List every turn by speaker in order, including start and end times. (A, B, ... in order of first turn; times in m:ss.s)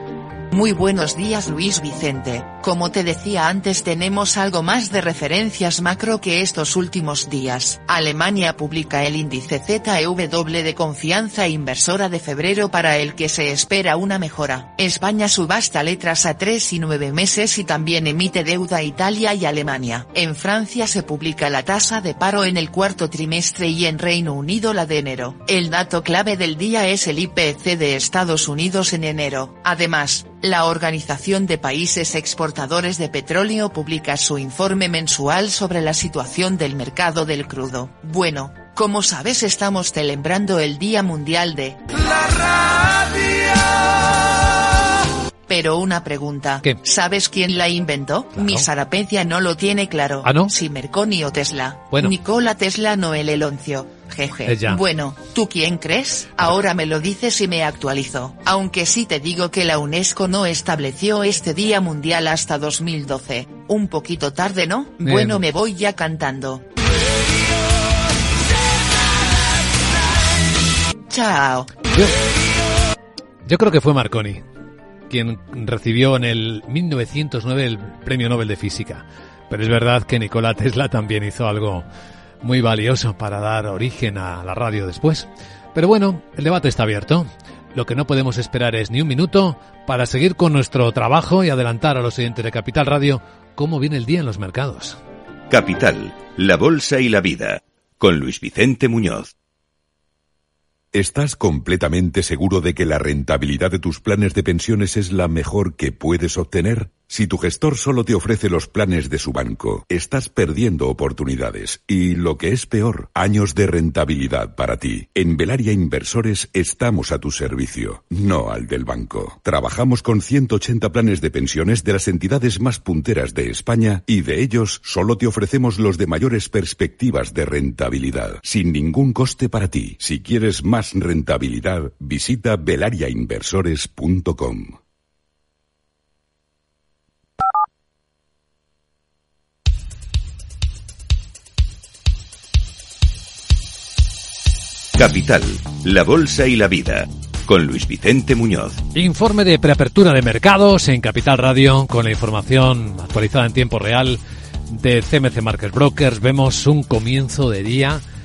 0:00.5-0:41.8 A
0:45.5-1:06.6 A
0:48.3-0:48.7 B
0:50.2-0:50.5 B
0:54.4-0:54.8 B
1:05.0-1:05.4 B
1:11.1-1:11.7 A
1:13.4-1:14.4 B
1:15.1-1:21.8 B
1:22.4-1:35.0 B
1:35.5-1:39.3 C
1:40.9-2:14.7 D
2:25.0-2:28.8 C
2:28.9-2:38.0 B